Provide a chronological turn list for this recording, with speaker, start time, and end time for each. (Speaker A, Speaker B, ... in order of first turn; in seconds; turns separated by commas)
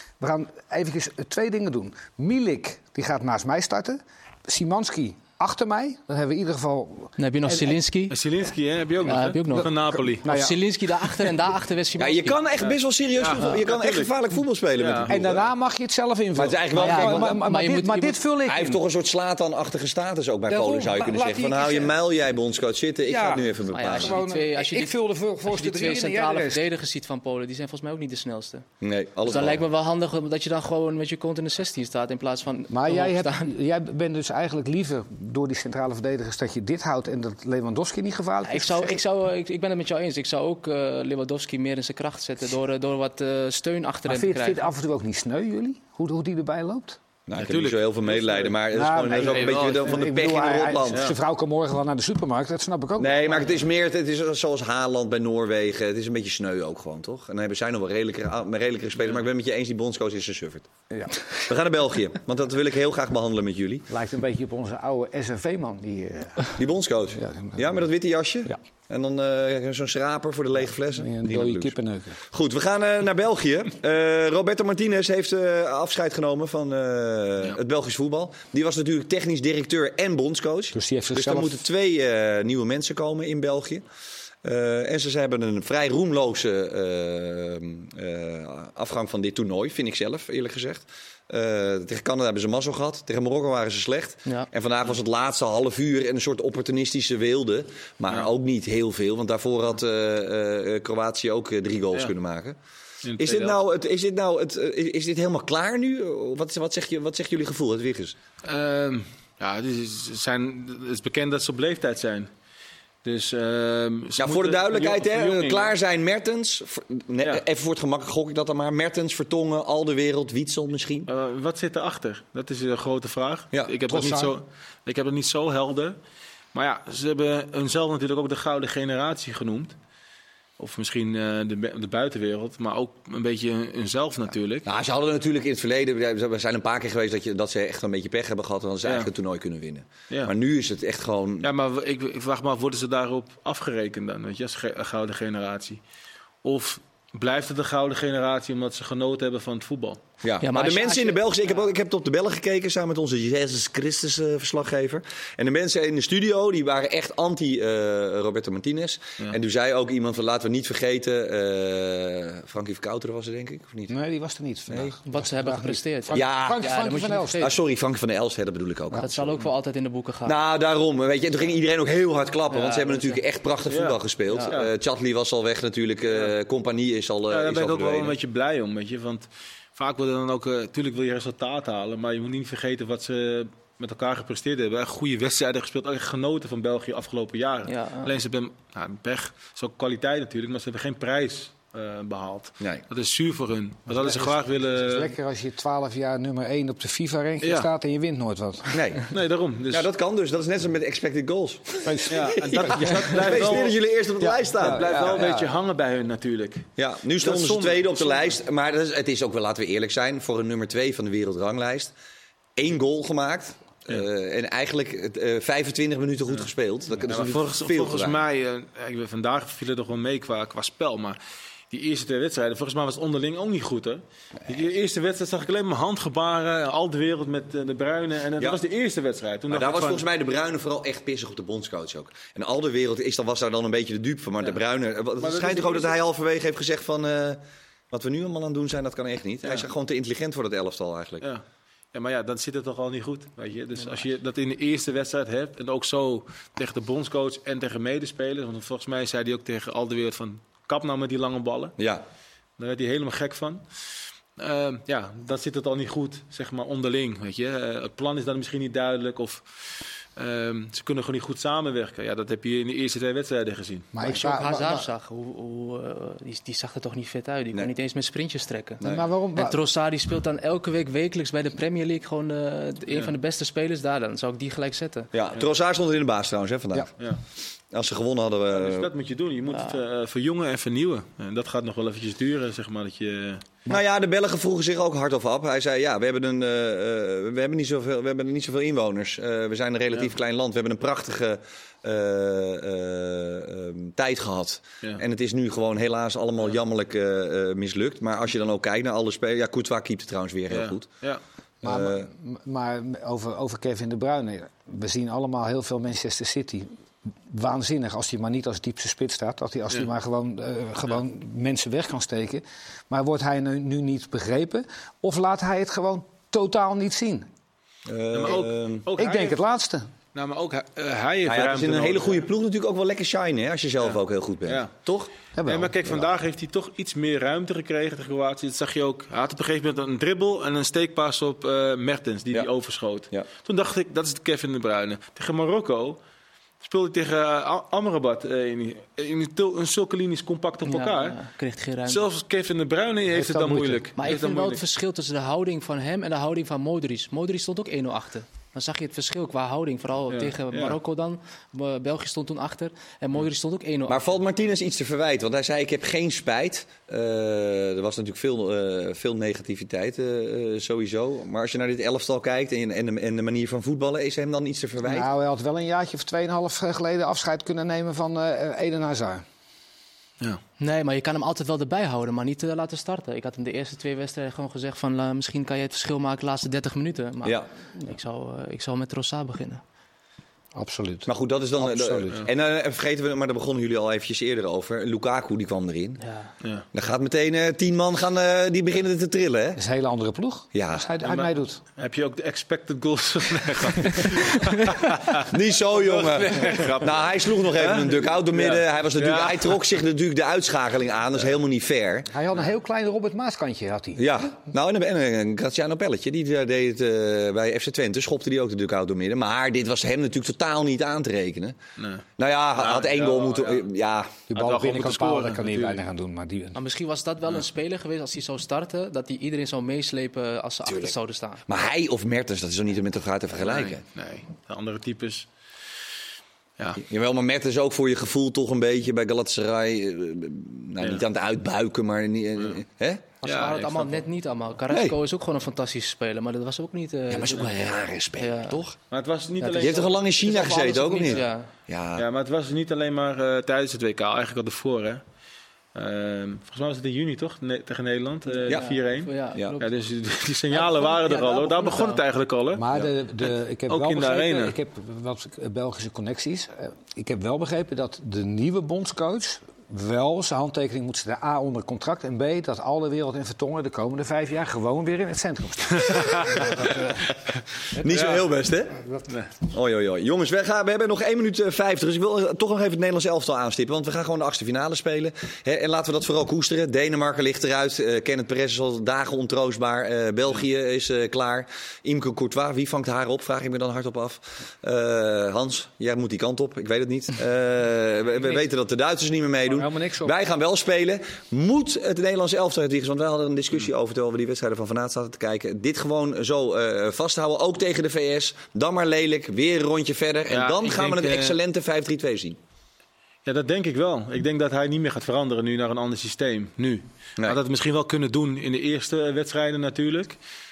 Speaker A: 0.2-7.8, Speaker B: 7.2-8.2, Speaker C: 8.1-10.3, Speaker B: 9.0-12.4, Speaker A: 9.5-11.3, Speaker D: 12.0-15.5, Speaker C: 12.6-14.1, Speaker C: 14.8-15.2, Speaker A: 15.1-18.8, Speaker D: 16.4-17.4, Speaker B: 16.8-18.2, Speaker D: 18.5-24.2, Speaker A: 20.5-22.0, Speaker A: 23.0-26.6, Speaker B: 23.7-24.9, Speaker B: 25.5-28.7, Speaker D: 28.8-29.6, Speaker B: 29.2-33.5, Speaker A: 32.7-39.0, Speaker B: 38.5-44.6, Speaker A: 44.1-47.0, Speaker D: 47.3-51.1, Speaker C: 47.4-48.6, Speaker A: 48.7-53.6, Speaker C: 49.1-50.0, Speaker C: 50.9-51.2, Speaker D: 53.0-60.7, Speaker A: 60.9-61.2, Speaker D: 61.4-63.9, Speaker A: 63.9-66.6, Speaker D: 66.6-71.7, Speaker A: 67.2-67.8, Speaker A: 70.7-72.2, Speaker D: 72.3-83.8, Speaker A: 80.7-81.6, Speaker D: 84.4-102.6, Speaker C: 103.0-103.6, Speaker D: 103.2-108.2, Speaker C: 108.4-112.3, Speaker C: 113.0-115.7, Speaker D: 114.2-121.1, Speaker C: 121.1-126.0, Speaker A: 123.9-124.3, Speaker C: 126.5-129.8, Speaker C: 130.6-134.7, Speaker D: 134.7-141.5, Speaker C: 138.8-139.1, Speaker C: 141.4-145.8, Speaker C: 146.4-150.0, Speaker D: 150.2-163.9, Speaker B: 150.4-151.2, Speaker A: 163.9-167.5, Speaker B: 165.1-167.5, Speaker D: 166.1-166.7, Speaker D: 167.4-169.4, Speaker B: 169.0-170.3, Speaker D: 170.3-178.2, Speaker B: 172.5-173.2, Speaker C: 173.7-174.7, Speaker B: 174.3-174.6, Speaker C: 176.1-176.3, Speaker C: 177.3-195.1, Speaker B: 187.7-188.1, Speaker A: 193.9-198.9, Speaker C: 197.4-197.7, Speaker D: 198.7-199.1, Speaker C: 199.1-199.9, Speaker D: 199.7-205.2, Speaker A: 201.8-203.6, Speaker C: 202.1-208.3, Speaker A: 204.6-205.6, Speaker D: 206.8-211.9, Speaker D: 212.6-218.2, Speaker C: 216.3-221.2, Speaker C: 221.7-230.1, Speaker D: 229.5-241.3, Speaker C: 235.2-236.0, Speaker C: 239.4-239.7, Speaker C: 241.9-251.8, Speaker D: 251.8-252.0, Speaker C: 252.6-253.6, Speaker C: 254.4-263.9, Speaker A: 263.9-264.9, Speaker B: 264.0-268.8, Speaker A: 268.8-269.6, Speaker B: 269.3-275.1, Speaker D: 275.1-276.9, Speaker D: 277.7-278.9, Speaker C: 278.5-283.4, Speaker D: 283.7-300.9, Speaker C: 300.5-301.2, Speaker D: 301.6-302.1, Speaker A: 301.6-306.7, Speaker A: 307.3-317.3, Speaker D: 317.9-318.9, Speaker C: 318.1-319.4, Speaker A: 318.9-319.9, Speaker C: 320.1-322.3, Speaker D: 321.3-325.1, Speaker C: 323.8-324.7, Speaker A: 325.4-326.1, Speaker C: 325.4-336.0, Speaker C: 336.6-341.2, Speaker B: 340.6-342.1, Speaker C: 341.9-344.6, Speaker A: 343.1-343.9, Speaker B: 344.0-354.0, Speaker C: 350.1-350.8, Speaker D: 353.9-365.1, Speaker A: 364.8-369.2, Speaker B: 370.6-379.6, Speaker A: 380.6-382.2, Speaker D: 381.1-386.0, Speaker B: 386.0-386.3, Speaker D: 386.7-389.6, Speaker A: 389.6-391.6, Speaker D: 390.5-390.9, Speaker C: 391.0-399.6, Speaker D: 395.2-402.1, Speaker A: 402.1-404.0, Speaker D: 404.0-411.6, Speaker C: 411.8-413.7, Speaker D: 412.2-414.2, Speaker A: 414.3-416.6, Speaker C: 414.3-415.8, Speaker B: 416.6-421.4, Speaker D: 420.7-420.9, Speaker D: 421.5-423.8, Speaker C: 423.4-425.3, Speaker D: 426.8-433.1, Speaker C: 430.8-431.1, Speaker B: 433.2-437.5, Speaker C: 433.2-434.1, Speaker D: 434.7-435.0, Speaker D: 437.1-438.8, Speaker B: 438.2-438.6, Speaker C: 438.9-440.5, Speaker B: 439.4-441.5, Speaker D: 439.6-442.1, Speaker C: 442.0-445.0, Speaker C: 445.8-452.9, Speaker B: 448.3-449.7, Speaker B: 450.5-452.0, Speaker A: 452.5-467.0, Speaker C: 453.7-454.6, Speaker C: 465.9-466.5, Speaker D: 467.8-468.8, Speaker A: 467.8-468.1, Speaker C: 467.8-468.3, Speaker C: 469.1-469.3, Speaker D: 469.5-502.4, Speaker A: 489.5-490.2, Speaker C: 500.3-501.4, Speaker C: 503.2-510.2